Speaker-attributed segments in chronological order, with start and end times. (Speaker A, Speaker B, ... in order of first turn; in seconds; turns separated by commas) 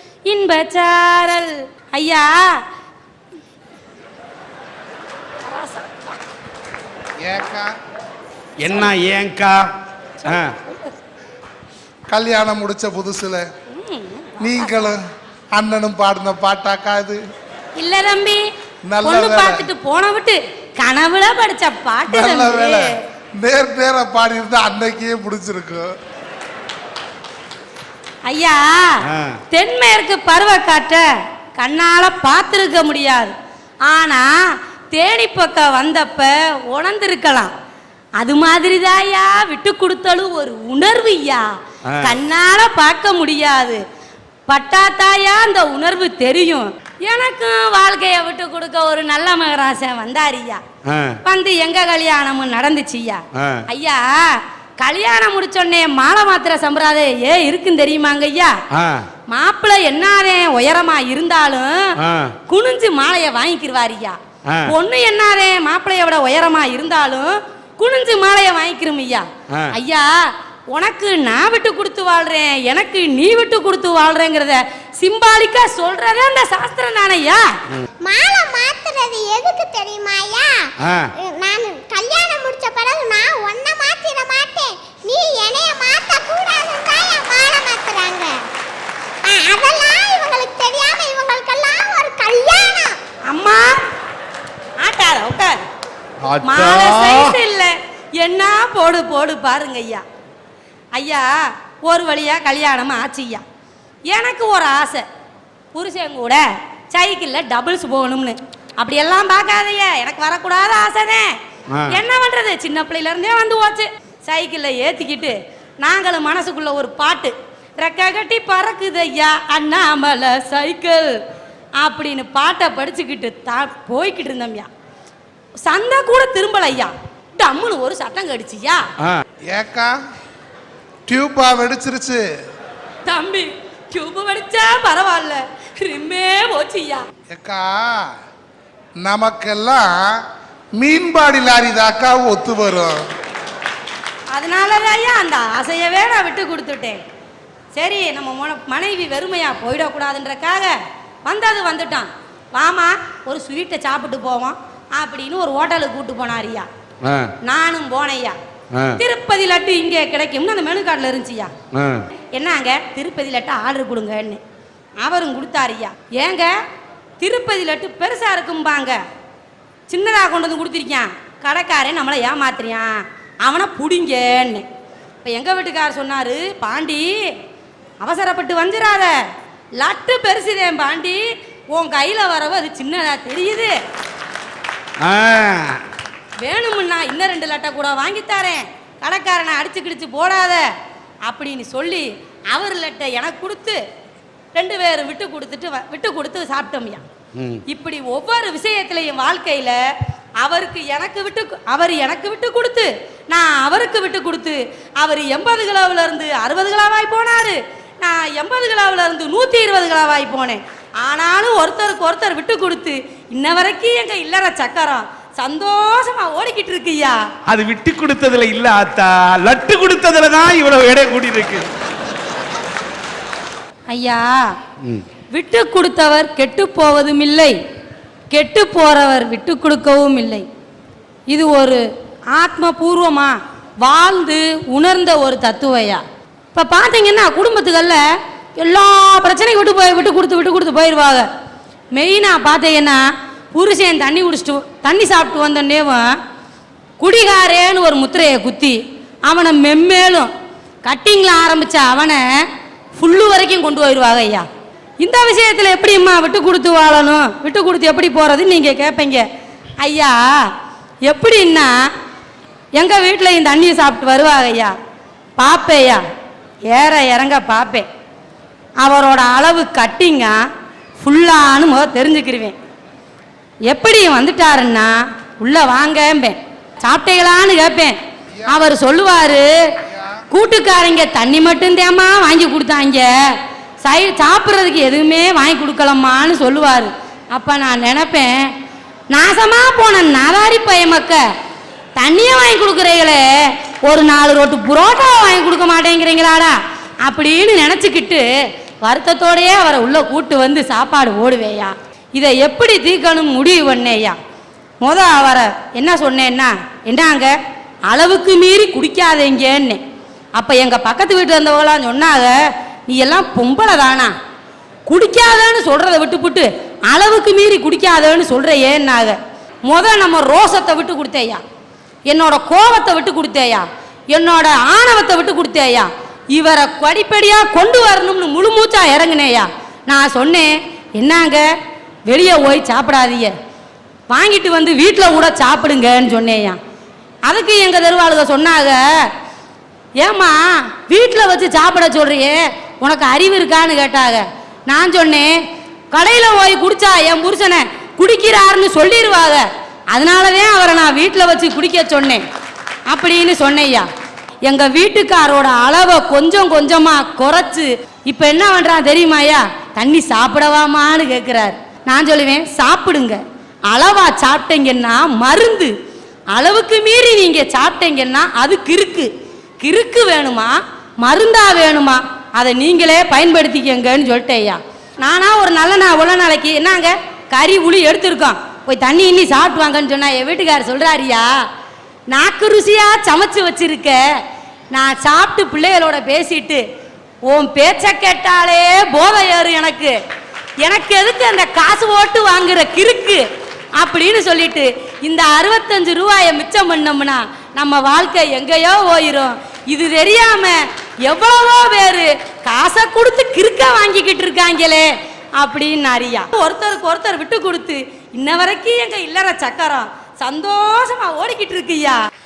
Speaker A: 0.3-2.5, Speaker A: 5.5-5.9, Speaker B: 7.2-7.7, Speaker C: 8.6-9.6, Speaker A: 10.2-10.9, Speaker C: 10.2-10.5, Speaker B: 12.1-13.4, Speaker A: 13.7-14.7, Speaker B: 14.4-15.0, Speaker B: 15.6-17.2, Speaker A: 17.8-18.4, Speaker B: 18.9-19.7, Speaker A: 19.0-22.9, Speaker B: 22.1-25.9, Speaker A: 28.3-28.9, Speaker C: 29.1-29.4, Speaker A: 29.5-31.1, Speaker A: 31.6-33.3, Speaker A: 33.9-34.3, Speaker A: 34.9-37.5, Speaker A: 38.2-41.5, Speaker C: 41.9-42.2, Speaker A: 42.0-43.8, Speaker A: 44.5-50.6, Speaker C: 50.9-51.2, Speaker A: 51.2-58.5, Speaker C: 53.4-53.6, Speaker C: 58.7-59.1, Speaker A: 59.3-61.8, Speaker C: 62.0-62.3, Speaker A: 62.5-70.1, Speaker A: 70.7-77.5, Speaker D: 78.0-88.5, Speaker C: 80.8-81.1, Speaker D: 89.2-93.0, Speaker A: 93.3-93.8, Speaker A: 94.8-95.6, Speaker C: 96.2-97.4, Speaker A: 96.4-100.0, Speaker A: 100.9-101.3, Speaker A: 101.8-103.4, Speaker A: 104.1-105.0, Speaker A: 105.7-111.3, Speaker A: 111.9-121.1, Speaker A: 121.8-124.7, Speaker A: 125.7-128.8, Speaker B: 129.5-129.9, Speaker B: 131.1-132.2, Speaker A: 133.1-137.1, Speaker B: 137.3-138.1, Speaker B: 139.0-140.2, Speaker B: 140.8-143.0, Speaker A: 144.3-147.0, Speaker A: 147.7-150.7, Speaker A: 151.3-156.7, Speaker C: 157.0-157.3, Speaker A: 157.4-158.4, Speaker C: 158.7-159.0, Speaker A: 159.0-161.5, Speaker C: 161.7-162.1, Speaker A: 162.3-164.4, Speaker A: 165.0-166.6, Speaker A: 167.2-169.0, Speaker A: 169.9-174.7, Speaker A: 175.2-177.1, Speaker A: 178.0-179.1, Speaker A: 179.8-183.8, Speaker C: 185.0-185.7, Speaker A: 186.4-190.7, Speaker A: 191.3-193.8, Speaker A: 194.5-197.0, Speaker C: 197.4-197.6, Speaker A: 197.7-199.8, Speaker A: 200.4-217.2, Speaker C: 217.5-221.7, Speaker A: 223.9-224.5, Speaker A: 225.3-227.6, Speaker A: 228.3-230.5, Speaker A: 231.3-231.8, Speaker A: 232.3-236.0, Speaker A: 236.6-238.0, Speaker A: 238.6-241.3, Speaker A: 241.9-243.0, Speaker A: 243.5-246.1, Speaker A: 247.0-250.3, Speaker A: 250.8-252.2, Speaker A: 252.9-254.5, Speaker A: 255.0-259.2, Speaker A: 259.8-260.2, Speaker A: 261.1-261.8, Speaker A: 262.8-264.8, Speaker A: 265.4-266.0, Speaker A: 266.7-267.9, Speaker A: 268.8-270.4, Speaker A: 271.0-272.6, Speaker A: 273.7-278.0, Speaker B: 278.4-278.6, Speaker A: 278.5-279.5, Speaker B: 279.8-280.2, Speaker A: 280.3-283.1, Speaker A: 283.8-288.5, Speaker A: 289.1-291.2, Speaker A: 292.0-293.2, Speaker A: 293.9-298.2, Speaker A: 298.8-304.2, Speaker A: 304.8-307.3, Speaker A: 307.9-309.8, Speaker A: 310.4-312.4, Speaker A: 312.9-314.1, Speaker A: 314.9-321.4, Speaker A: 322.1-331.5, Speaker A: 332.1-333.3, Speaker A: 334.1-336.6, Speaker A: 337.3-339.1, Speaker A: 340.0-345.3, Speaker A: 345.9-352.2, Speaker A: 352.9-353.9, Speaker A: 354.4-365.7, Speaker A: 366.4-369.1, Speaker A: 369.6-381.3, Speaker A: 382.1-384.0, Speaker A: 384.7-386.6, Speaker A: 387.3-390.0, Speaker A: 390.6-393.2, Speaker A: 393.8-412.0